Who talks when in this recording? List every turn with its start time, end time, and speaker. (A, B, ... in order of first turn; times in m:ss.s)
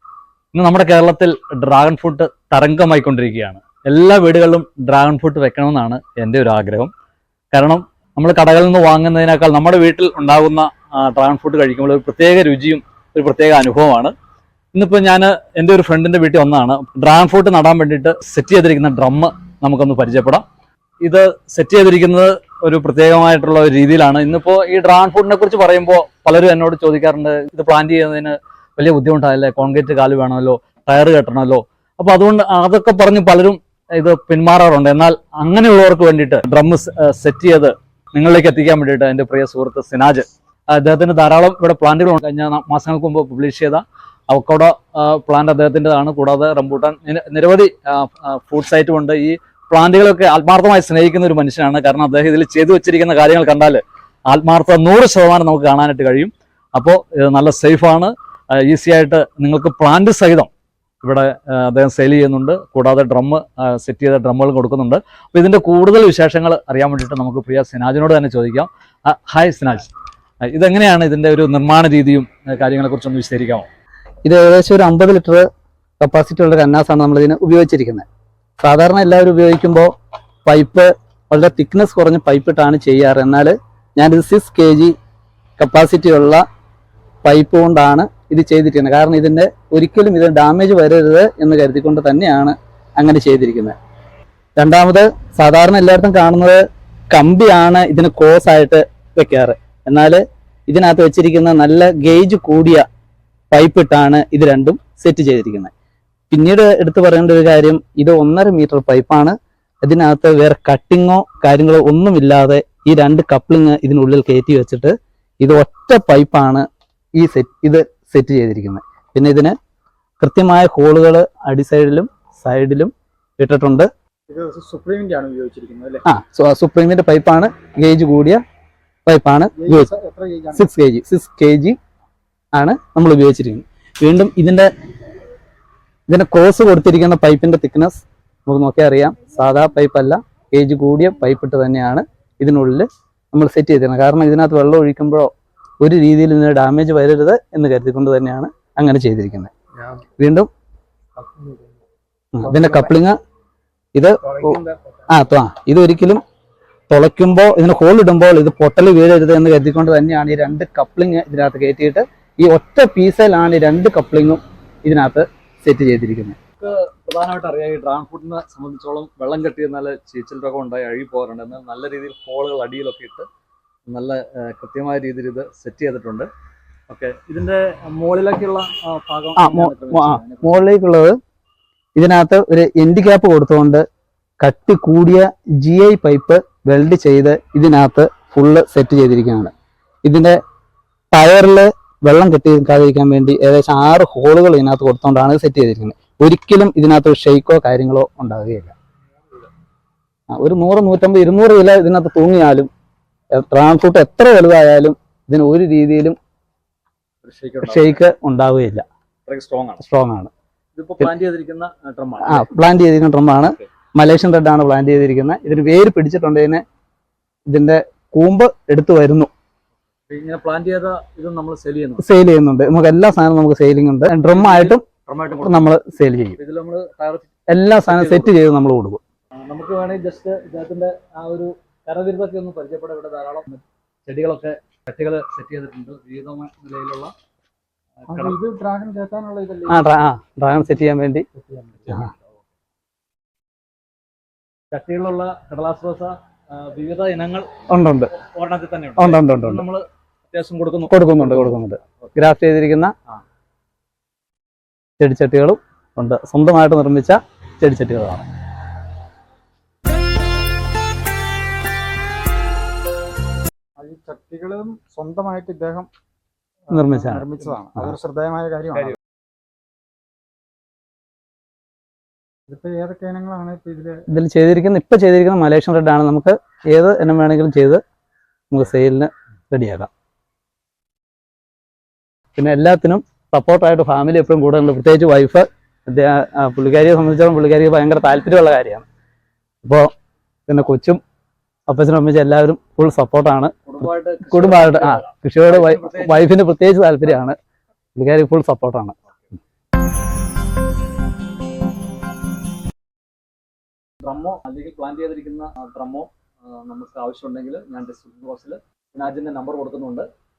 0:00.5-0:06.9 A
0:07.5-0:14.1 A
0:14.8-0:20.4 A
0:21.0-1:00.5 A
1:01.0-1:09.9 A
1:10.4-1:13.7 A
1:14.2-1:15.4 B
1:16.0-1:18.1 B
1:18.6-1:19.9 B
1:20.5-1:24.9 B
1:25.6-1:26.4 B
1:27.2-1:33.8 B
1:34.6-1:36.6 B
1:37.1-1:42.8 B
1:43.5-1:45.7 B
1:46.3-1:56.6 B
1:57.2-1:59.6 B
2:00.2-2:03.9 B
2:04.3-2:06.0 C
2:06.1-2:08.4 B
2:09.1-2:09.9 B
2:09.6-2:10.7 C
2:10.6-2:11.8 B
2:12.6-2:14.7 B
2:16.1-2:25.3 B
2:25.8-2:29.5 B
2:30.2-2:30.5 B
2:31.2-2:31.6 C
2:32.3-2:33.2 B
2:34.0-2:36.2 B
2:36.9-2:46.4 B
2:46.6-2:53.3 A
2:53.9-2:56.3 A
2:56.9-3:00.6 A
2:59.4-3:01.2 B
3:02.0-3:03.8 B
3:04.4-3:09.5 B
3:10.0-3:10.4 B
3:11.1-3:18.7 B
3:20.3-3:22.7 B
3:23.3-3:26.2 B
3:27.2-3:28.0 A
3:27.6-3:28.8 B
3:29.3-3:29.8 A
3:29.8-3:30.3 B
3:30.8-3:32.5 A
3:32.2-3:36.6 B
3:37.5-3:39.3 B
3:40.1-3:42.1 A
3:42.0-3:44.8 B
3:44.2-3:45.7 A
3:45.4-3:46.4 B
3:46.4-3:47.3 A
3:47.5-3:49.0 B
3:47.8-3:48.3 A
3:49.5-3:57.1 A
3:58.0-3:58.4 A
3:58.1-3:59.8 C
3:59.7-4:01.3 B
4:01.4-4:01.9 C
4:01.9-4:02.3 A
4:04.7-4:12.2 A
4:07.7-4:08.1 B
4:09.0-4:09.7 B
4:10.9-4:12.9 B
4:15.0-4:18.2 B
4:23.8-4:25.9 C
4:26.7-4:28.0 B
4:26.7-4:28.9 C
4:32.5-4:34.1 C
4:34.1-4:37.8 B
4:38.5-4:39.9 B
4:42.4-4:48.9 B
4:49.6-4:49.9 B
4:50.5-4:51.0 B
4:51.7-4:53.6 B
4:53.6-4:56.3 A
4:54.3-4:57.4 B
4:58.0-4:59.0 B
5:04.0-5:10.1 A